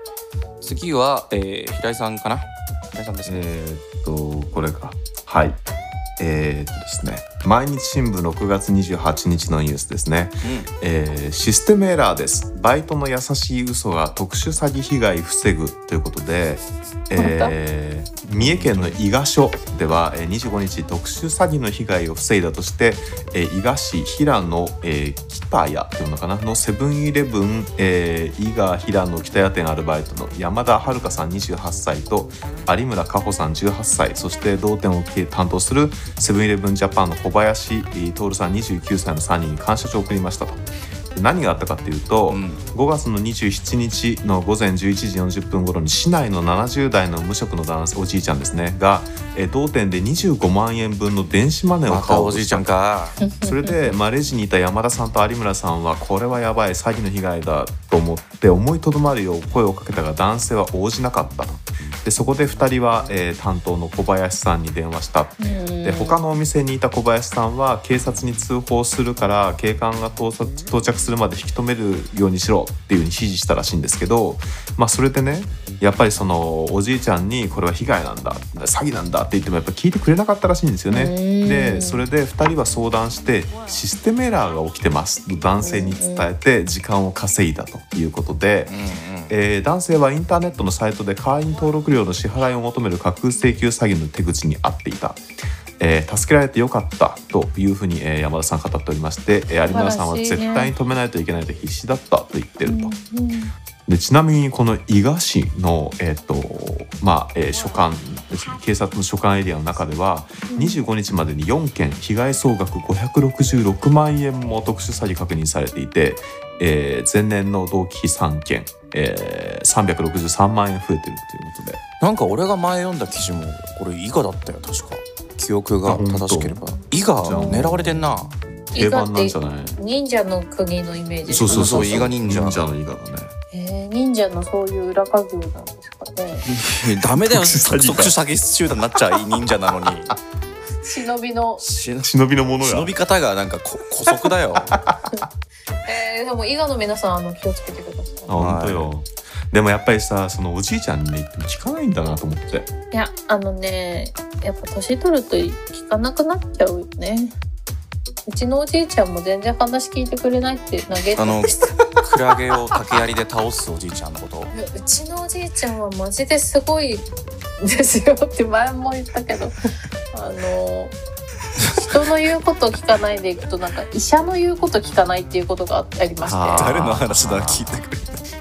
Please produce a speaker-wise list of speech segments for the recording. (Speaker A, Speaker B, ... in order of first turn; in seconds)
Speaker A: 0.6-3.5, 10.4-10.7, 18.3-19.0, 42.3-42.6, 51.9-53.2, 88.7-89.3, 122.0-128.3, 131.5-132.6, 136.5-140.1, 141.6-144.8, 148.3-148.9, 161.2-164.5, 171.6-171.9, 176.5-178.2
Speaker B: 3.2-5.6, 6.2-52.7, 53.4-88.7, 89.3-95.2, 95.8-102.9, 103.9-121.8, 125.8-126.6, 127.2-128.0, 128.7-129.8, 131.3-133.3, 137.2-138.1, 142.0-142.9, 148.3-152.7, 176.2-177.8
Speaker C: 17.2-17.5, 53.2-53.6, 65.4-66.2, 80.9-82.0, 85.6-86.3, 99.7-100.7, 102.6-103.5, 110.5-110.8, 127.3-127.7, 128.7-132.0, 133.5-136.5, 140.8-141.6, 145.8-148.4, 152.9-157.3, 158.2-161.9, 164.5-167.1, 167.6-169.6, 170.1-170.9, 171.8-176.7